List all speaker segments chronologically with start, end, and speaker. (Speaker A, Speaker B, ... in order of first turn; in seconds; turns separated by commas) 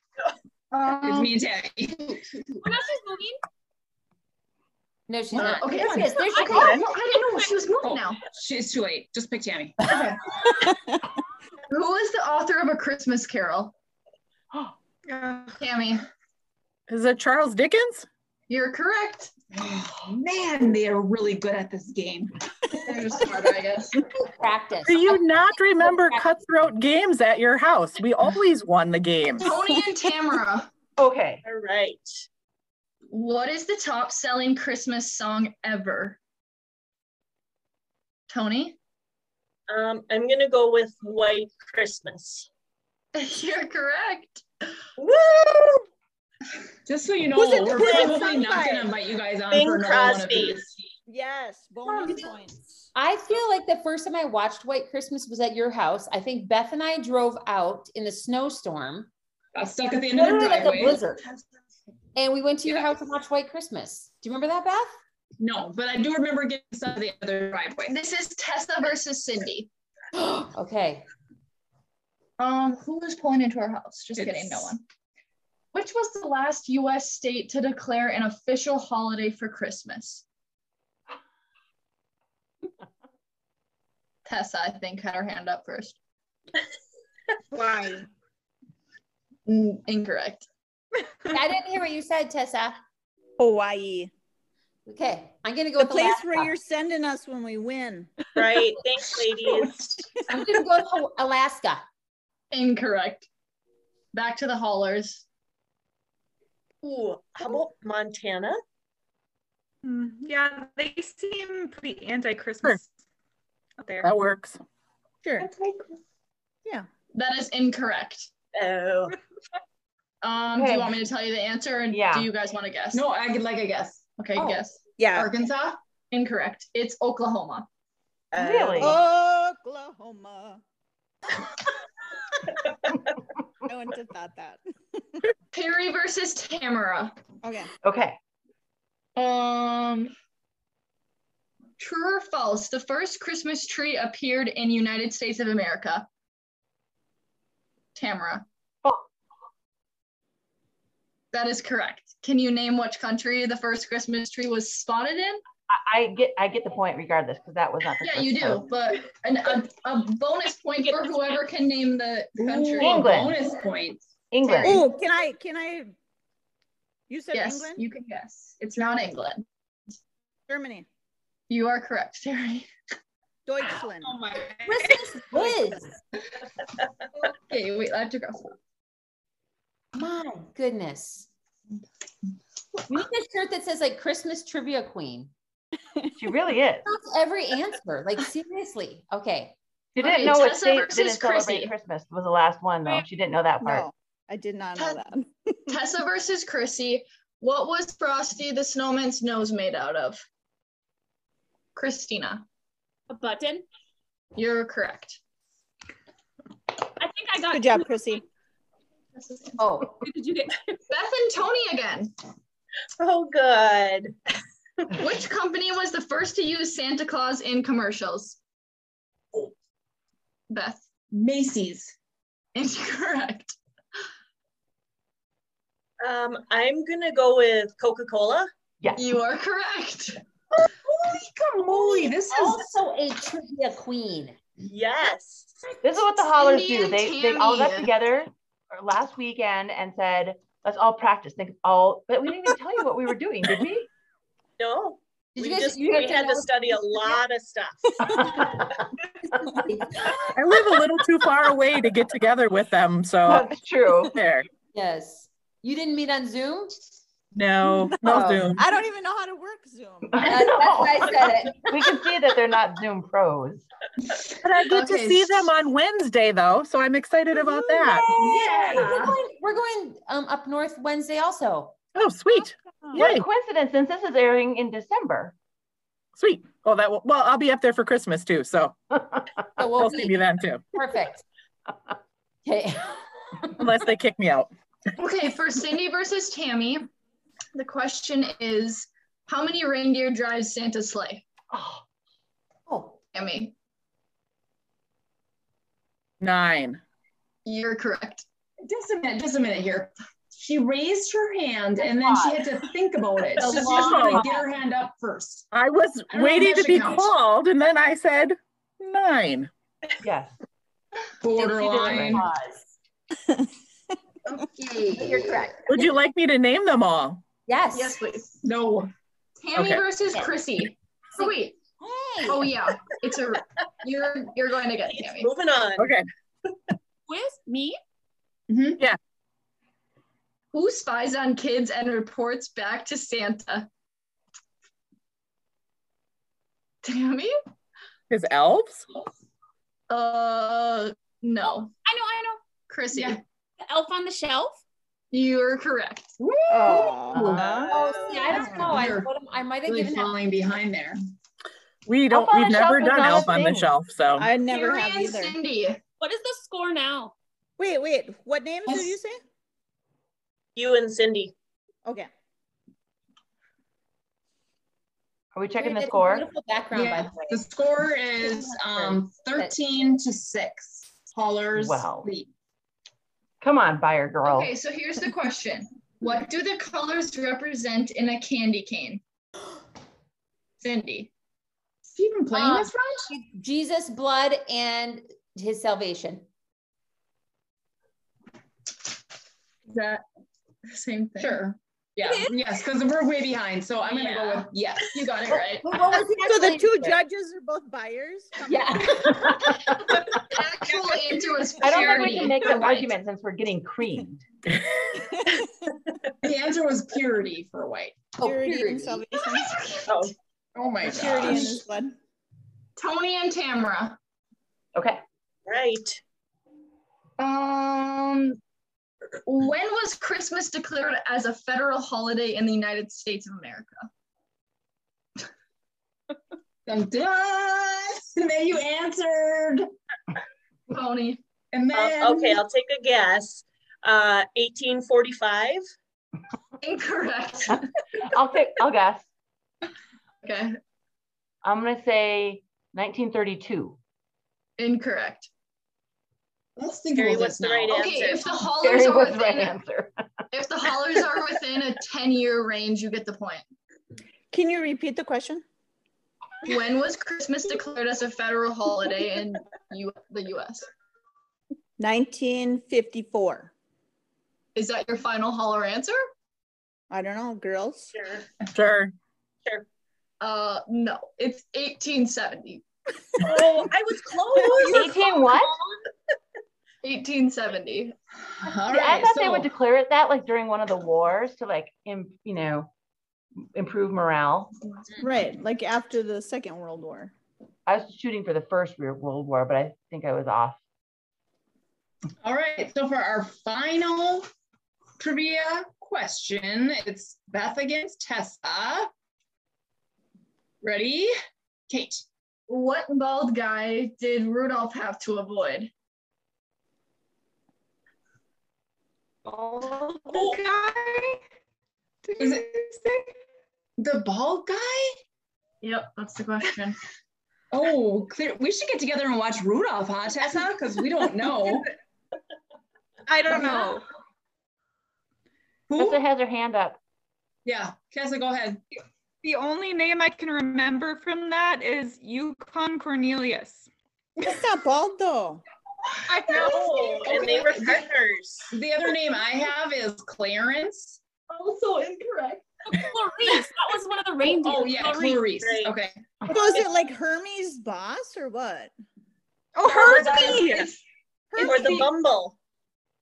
Speaker A: 0.7-1.3, Speaker B: 1.0-2.2, Speaker C: 2.6-3.4, Speaker D: 5.1-6.8, Speaker A: 5.4-8.3, Speaker C: 6.2-7.7, Speaker B: 7.9-10.1, Speaker A: 9.8-10.2, Speaker E: 10.5-11.0, Speaker A: 11.7-13.7, Speaker F: 15.1-15.5, Speaker A: 15.6-16.0, Speaker G: 16.9-18.1, Speaker A: 18.5-19.4, Speaker B: 19.5-22.3, Speaker A: 22.8-24.0, Speaker D: 24.2-26.3, Speaker G: 24.9-29.5, Speaker A: 29.4-30.7, Speaker H: 31.0-31.4, Speaker I: 31.4-32.2, Speaker A: 33.1-36.2, Speaker A: 38.3-38.8, Speaker I: 39.7-42.5, Speaker A: 43.1-44.4, Speaker I: 45.0-45.9, Speaker B: 46.9-50.9, Speaker E: 47.3-48.9, Speaker I: 47.5-48.5, Speaker I: 49.5-50.6, Speaker E: 51.1-52.6, Speaker D: 52.0-52.3, Speaker D: 53.0-59.1, Speaker B: 59.5-61.0, Speaker D: 60.1-61.2, Speaker D: 62.1-65.0, Speaker B: 65.4-67.9, Speaker A: 67.9-69.7, Speaker D: 70.2-71.1, Speaker A: 72.4-74.8, Speaker B: 74.2-74.7, Speaker A: 75.7-80.2, Speaker A: 84.3-86.0, Speaker E: 87.5-88.0, Speaker A: 89.5-90.5, Speaker D: 91.3-92.8, Speaker E: 93.4-94.1, Speaker D: 94.9-96.5, Speaker E: 95.8-98.1, Speaker I: 98.3-100.0, Speaker D: 100.3-101.8, Speaker A: 102.5-103.3, Speaker A: 104.1-105.2, Speaker I: 106.8-108.6, Speaker F: 109.8-112.9, Speaker F: 113.8-114.1, Speaker G: 114.0-114.6, Speaker E: 115.2-115.5, Speaker A: 117.1-118.3, Speaker I: 118.5-119.2, Speaker A: 120.2-123.0, Speaker H: 120.5-121.0, Speaker H: 121.9-122.3, Speaker B: 122.9-124.2, Speaker A: 124.2-124.8, Speaker E: 125.0-125.3, Speaker B: 125.2-125.8, Speaker A: 126.1-127.7, Speaker I: 128.3-128.9, Speaker H: 128.3-129.0, Speaker E: 128.8-130.6, Speaker E: 133.7-135.0, Speaker A: 135.5-137.1, Speaker E: 137.4-137.7, Speaker H: 137.8-138.2, Speaker A: 139.2-140.1, Speaker A: 141.8-146.1, Speaker A: 147.9-148.4, Speaker A: 151.3-155.4, Speaker H: 155.7-158.7, Speaker A: 158.0-163.1, Speaker I: 160.8-161.4, Speaker B: 162.8-164.1, Speaker H: 162.8-163.4, Speaker H: 164.3-164.9, Speaker A: 164.4-164.8, Speaker E: 164.6-165.9, Speaker E: 167.1-167.8, Speaker A: 167.3-169.4, Speaker E: 170.5-170.9, Speaker A: 171.5-172.7, Speaker E: 173.5-174.2, Speaker F: 174.0-175.1, Speaker D: 174.6-175.9, Speaker A: 177.3-178.5, Speaker D: 179.9-181.3, Speaker D: 182.9-185.3, Speaker H: 186.2-186.9, Speaker D: 186.8-189.6, Speaker H: 190.0-193.9, Speaker A: 190.0-191.7, Speaker E: 193.6-195.7, Speaker A: 195.7-200.2, Speaker A: 201.8-202.4, Speaker C: 203.1-203.6, Speaker A: 204.4-205.2, Speaker C: 207.0-208.2, Speaker E: 207.5-208.2, Speaker A: 209.2-209.6, Speaker D: 209.6-209.9, Speaker C: 209.9-210.8, Speaker A: 210.9-212.1, Speaker I: 213.0-214.1, Speaker A: 214.9-218.4, Speaker A: 220.5-220.9, Speaker B: 221.1-221.9, Speaker A: 222.6-223.6, Speaker I: 226.0-228.5, Speaker A: 228.9-230.2, Speaker B: 230.6-232.7, Speaker D: 231.8-234.4, Speaker I: 234.6-235.6, Speaker H: 235.8-243.9, Speaker A: 236.0-238.0, Speaker I: 244.6-248.5, Speaker D: 245.4-247.2, Speaker D: 249.6-250.3, Speaker G: 250.3-253.5, Speaker H: 253.3-254.2, Speaker G: 254.1-254.5, Speaker D: 254.7-256.8, Speaker G: 257.3-258.7, Speaker D: 258.0-258.6, Speaker E: 258.6-260.4, Speaker H: 260.1-261.1, Speaker D: 260.2-261.7, Speaker H: 261.7-263.6, Speaker G: 264.4-268.1, Speaker A: 264.7-265.4, Speaker D: 268.0-271.8, Speaker A: 268.1-269.1, Speaker B: 268.4-269.1, Speaker G: 271.9-273.3, Speaker H: 272.9-275.4, Speaker G: 276.2-278.8, Speaker D: 279.6-281.2, Speaker G: 279.7-280.6, Speaker D: 282.4-283.0, Speaker G: 283.6-284.5, Speaker A: 285.0-286.9, Speaker A: 287.5-291.3, Speaker H: 291.5-291.8, Speaker D: 292.7-293.0, Speaker A: 293.1-293.5, Speaker G: 296.2-296.8, Speaker A: 297.4-298.2, Speaker B: 298.6-305.5, Speaker D: 301.8-302.5, Speaker D: 303.4-304.5, Speaker I: 303.4-303.7, Speaker G: 303.7-304.3, Speaker G: 305.5-309.5, Speaker B: 306.1-307.1, Speaker H: 310.0-310.3, Speaker B: 311.2-312.2, Speaker H: 311.4-312.3, Speaker D: 311.4-312.6, Speaker A: 314.3-315.5, Speaker D: 314.9-315.9, Speaker G: 315.7-317.2, Speaker D: 317.5-318.0, Speaker A: 317.7-318.4, Speaker B: 318.4-318.9, Speaker A: 319.4-321.6, Speaker G: 319.6-319.9, Speaker D: 321.2-322.5, Speaker A: 322.2-325.3, Speaker I: 324.9-326.0, Speaker G: 325.8-326.1, Speaker C: 327.1-327.8, Speaker A: 330.5-333.7, Speaker A: 336.8-337.3, Speaker G: 338.1-338.9, Speaker A: 339.9-341.7, Speaker C: 341.9-342.5, Speaker A: 342.7-343.2, Speaker C: 343.6-344.6, Speaker A: 345.1-346.8, Speaker E: 346.5-347.6, Speaker D: 346.6-350.2, Speaker H: 347.3-347.7, Speaker I: 347.4-348.7, Speaker B: 348.4-349.1, Speaker B: 349.7-351.0, Speaker G: 351.9-354.3, Speaker H: 352.1-353.7, Speaker E: 354.2-355.4, Speaker A: 354.4-355.8, Speaker C: 356.0-357.1, Speaker E: 357.6-359.2, Speaker I: 360.6-361.3, Speaker H: 365.3-366.3, Speaker D: 365.6-367.5, Speaker B: 366.7-372.3, Speaker D: 368.2-369.6, Speaker H: 371.5-372.1, Speaker H: 373.4-374.5, Speaker A: 374.2-379.0, Speaker A: 380.6-381.1, Speaker B: 381.9-382.7, Speaker D: 382.3-386.2, Speaker A: 389.7-390.0, Speaker A: 390.7-391.4, Speaker C: 392.0-392.4, Speaker B: 392.2-395.1, Speaker A: 393.9-395.7, Speaker D: 395.6-397.0, Speaker E: 396.0-399.5, Speaker D: 398.4-399.9, Speaker A: 400.3-402.9, Speaker H: 401.6-404.2, Speaker E: 404.9-405.5, Speaker B: 406.2-408.0, Speaker D: 408.2-409.1, Speaker E: 408.2-409.6, Speaker A: 409.1-410.1, Speaker I: 409.9-410.1, Speaker B: 410.7-411.2, Speaker E: 410.8-411.9, Speaker A: 410.9-411.5, Speaker A: 412.8-414.0, Speaker H: 414.8-415.0, Speaker I: 415.5-416.0, Speaker A: 417.2-418.4, Speaker A: 419.2-423.9, Speaker B: 426.7-429.6, Speaker A: 430.7-431.2, Speaker B: 431.5-432.4, Speaker I: 431.7-435.6, Speaker A: 436.6-437.7, Speaker H: 438.0-439.1, Speaker A: 440.2-440.6, Speaker H: 441.4-443.8, Speaker A: 444.6-445.3, Speaker B: 446.6-447.5, Speaker I: 446.9-448.3, Speaker A: 447.5-449.6, Speaker H: 448.5-449.9, Speaker A: 450.3-453.4, Speaker E: 454.3-455.4, Speaker A: 456.4-460.7, Speaker E: 461.8-463.5, Speaker A: 464.6-466.0, Speaker E: 466.9-467.9, Speaker I: 467.9-468.3, Speaker G: 468.5-468.9, Speaker A: 470.2-472.6, Speaker I: 473.2-475.8, Speaker H: 474.7-475.6, Speaker A: 476.8-477.9, Speaker B: 478.4-479.5, Speaker H: 478.6-482.7, Speaker H: 483.6-484.6, Speaker E: 485.0-487.1, Speaker H: 487.7-490.6, Speaker B: 492.2-494.3, Speaker B: 495.0-498.9, Speaker B: 500.6-501.1, Speaker B: 501.7-502.1, Speaker A: 502.5-505.7, Speaker F: 509.2-511.2, Speaker F: 512.0-513.1, Speaker B: 513.8-514.9, Speaker A: 515.6-516.8, Speaker B: 517.5-521.7, Speaker F: 523.1-523.8, Speaker E: 523.3-523.7, Speaker B: 525.7-526.0, Speaker H: 525.7-526.8, Speaker B: 527.5-528.6, Speaker F: 529.2-533.7, Speaker E: 534.2-535.4, Speaker F: 536.1-537.5, Speaker A: 536.2-537.9, Speaker I: 536.3-538.5, Speaker B: 538.6-541.0, Speaker A: 541.3-542.5, Speaker C: 542.6-545.5, Speaker B: 544.4-545.9, Speaker I: 545.2-545.8, Speaker E: 546.3-548.7, Speaker F: 549.5-550.7, Speaker A: 549.7-550.8, Speaker E: 551.3-551.9, Speaker A: 551.4-551.9, Speaker I: 551.4-552.4